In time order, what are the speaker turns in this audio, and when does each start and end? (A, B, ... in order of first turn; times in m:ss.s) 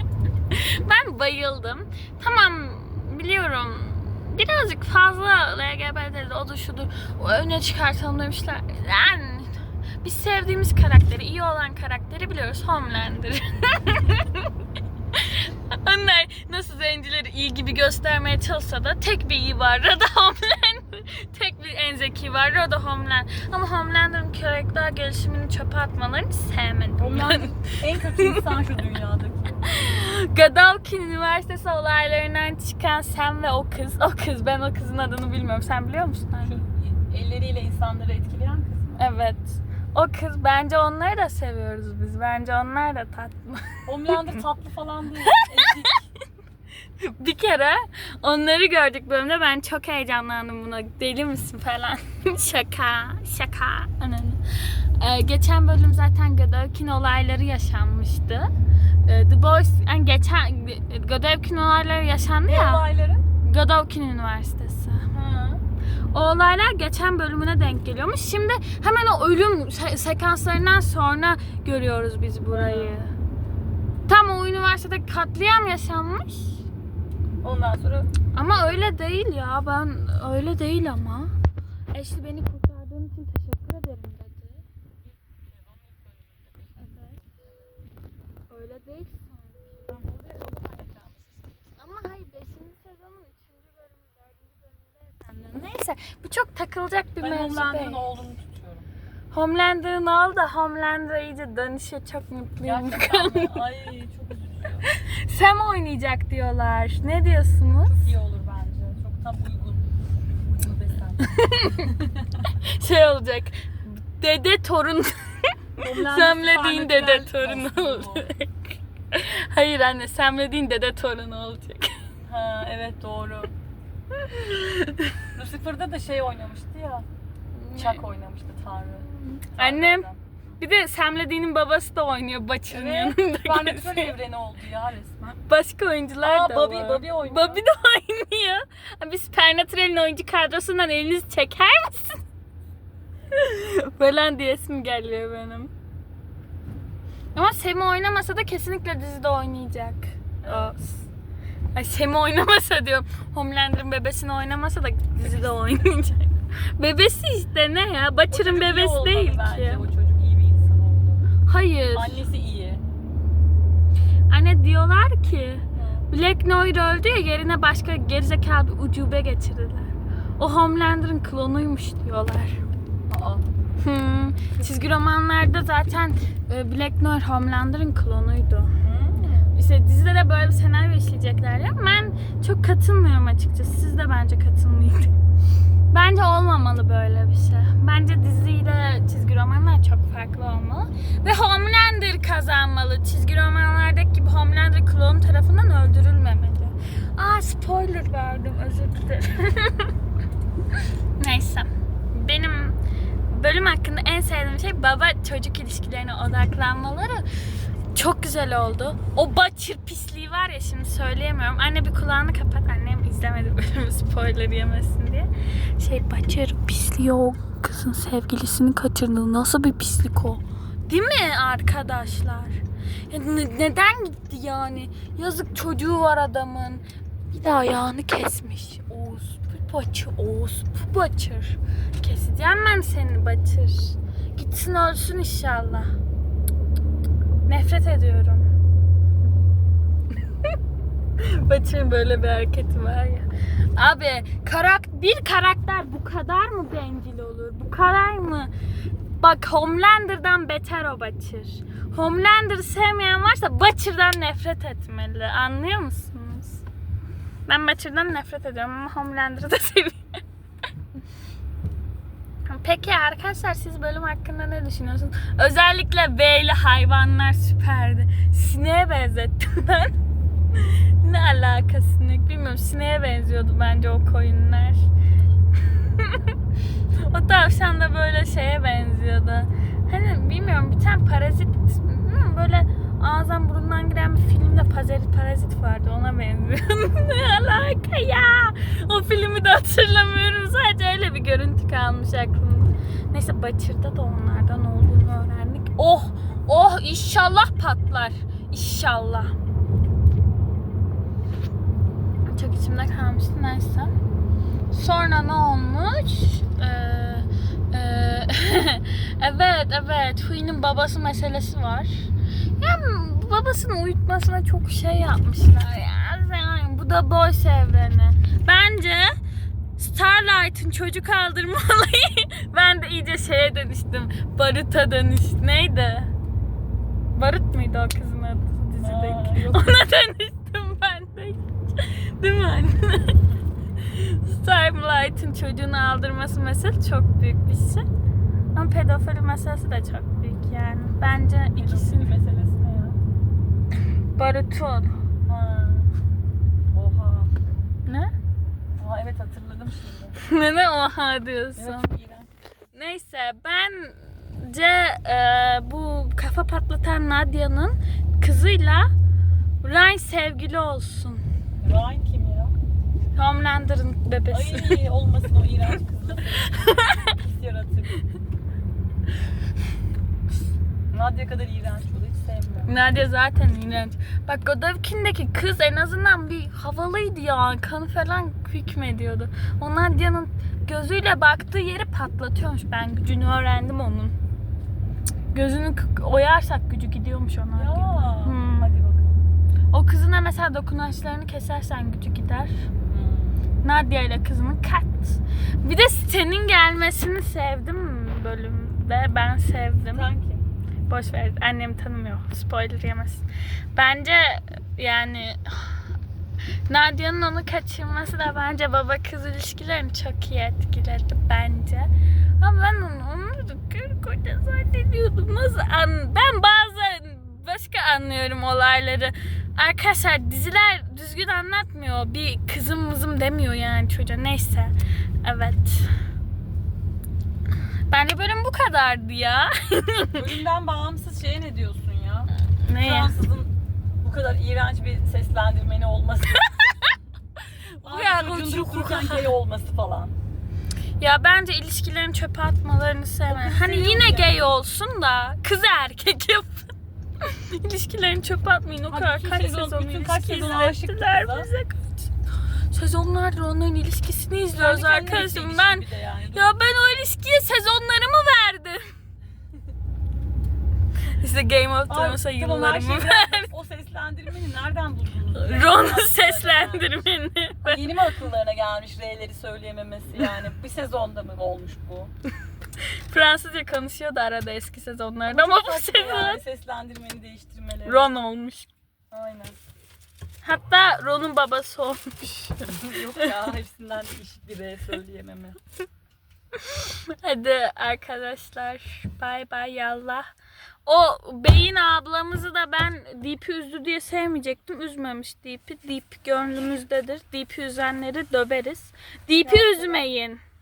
0:00.5-0:14.5 A
0:15.1-0:28.6 A
0:27.0-0:29.6 B
0:29.7-0:36.6 A
0:36.4-0:39.0 B
0:39.0-0:44.4 A
0:43.8-0:46.0 B
0:45.3-0:45.9 A
0:47.0-0:58.5 A
0:59.0-1:02.8 A
1:02.4-1:03.2 B
1:03.4-1:05.1 A
1:05.1-1:05.6 B
1:06.1-1:13.1 A
1:12.5-1:13.1 B
1:14.1-1:16.6 A
1:17.4-1:18.1 B
1:18.3-1:21.3 A
1:21.9-1:24.6 A
1:26.8-1:27.2 A
1:28.5-1:30.0 A
1:29.9-1:31.2 B
1:31.8-1:38.0 A
1:37.2-1:38.9 B
1:39.3-1:43.6 A
1:42.6-1:44.9 B
1:44.8-1:48.0 A
1:47.8-1:52.4 B
1:51.3-1:52.0 A
1:52.6-2:02.1 A
1:55.8-1:58.3 B
2:02.2-2:03.5 B
2:04.1-2:05.3 A
2:05.3-2:07.0 B
2:07.5-2:08.0 A
2:07.7-2:10.4 B
2:09.1-2:10.1 A
2:10.6-2:14.1 A
2:12.7-2:15.4 B
2:15.4-2:22.2 A
2:16.2-2:17.6 B
2:23.3-2:25.7 A
2:27.3-2:31.1 A
2:30.4-2:30.7 B
2:31.7-2:39.8 A
2:38.3-2:41.2 B
2:41.4-2:42.2 A
2:41.9-2:42.8 B
2:44.3-2:52.6 A
2:45.7-2:46.1 B
2:53.1-2:53.6 B
2:53.8-2:58.7 A
2:58.8-2:59.5 B
2:59.5-3:05.1 A
3:05.9-3:19.9 A
3:21.2-3:27.2 A
3:27.9-3:55.9 A
3:57.5-3:58.4 A
4:01.2-4:08.5 A
4:09.2-4:16.6 A
4:17.5-4:20.0 A
4:22.4-4:29.9 A
4:30.5-4:34.9 A
4:35.6-4:36.3 A
4:37.0-4:59.3 A
5:02.3-5:03.9 A
5:04.7-5:19.2 A
5:19.8-5:26.1 A
5:27.1-5:33.3 A
5:28.8-5:29.8 B
5:33.8-5:37.8 A
5:38.5-5:42.2 A
5:41.5-5:43.0 B
5:44.2-5:44.9 A
5:45.3-5:45.9 B
5:46.7-5:47.5 B
5:47.8-5:48.1 A
5:48.8-5:50.2 B
5:50.2-5:51.9 A
5:51.6-5:52.3 B
5:52.7-5:58.9 A
5:59.6-6:01.2 A
6:01.6-6:02.5 B
6:03.1-6:04.8 A
6:04.3-6:08.0 B
6:06.4-6:07.1 A
6:10.9-6:12.7 B
6:12.6-6:24.1 A
6:25.3-6:28.7 A
6:27.5-6:29.2 B
6:29.7-6:32.6 A
6:32.8-6:33.6 B
6:33.6-6:40.1 A
6:39.9-6:40.4 B
6:40.9-6:45.9 A
6:46.7-7:05.9 A
7:07.9-7:10.3 A
7:10.1-7:16.9 B
7:12.4-7:13.2 A
7:17.8-7:20.1 B
7:17.9-7:19.3 A
7:21.0-7:26.7 A
7:23.3-7:24.4 B
7:27.2-7:32.1 A
7:28.9-7:31.5 B
7:32.7-7:38.8 A
7:34.6-7:36.5 B
7:41.1-7:43.5 A
7:41.9-7:46.9 B
7:45.3-7:48.0 A
7:47.6-7:52.1 B
7:53.1-7:56.4 A
7:55.3-7:58.1 B
7:57.8-7:58.7 A
7:59.1-7:59.6 B
8:00.4-8:03.5 A
8:02.6-8:05.6 B
8:06.5-8:10.3 A
8:10.8-8:20.4 A
8:19.3-8:20.0 B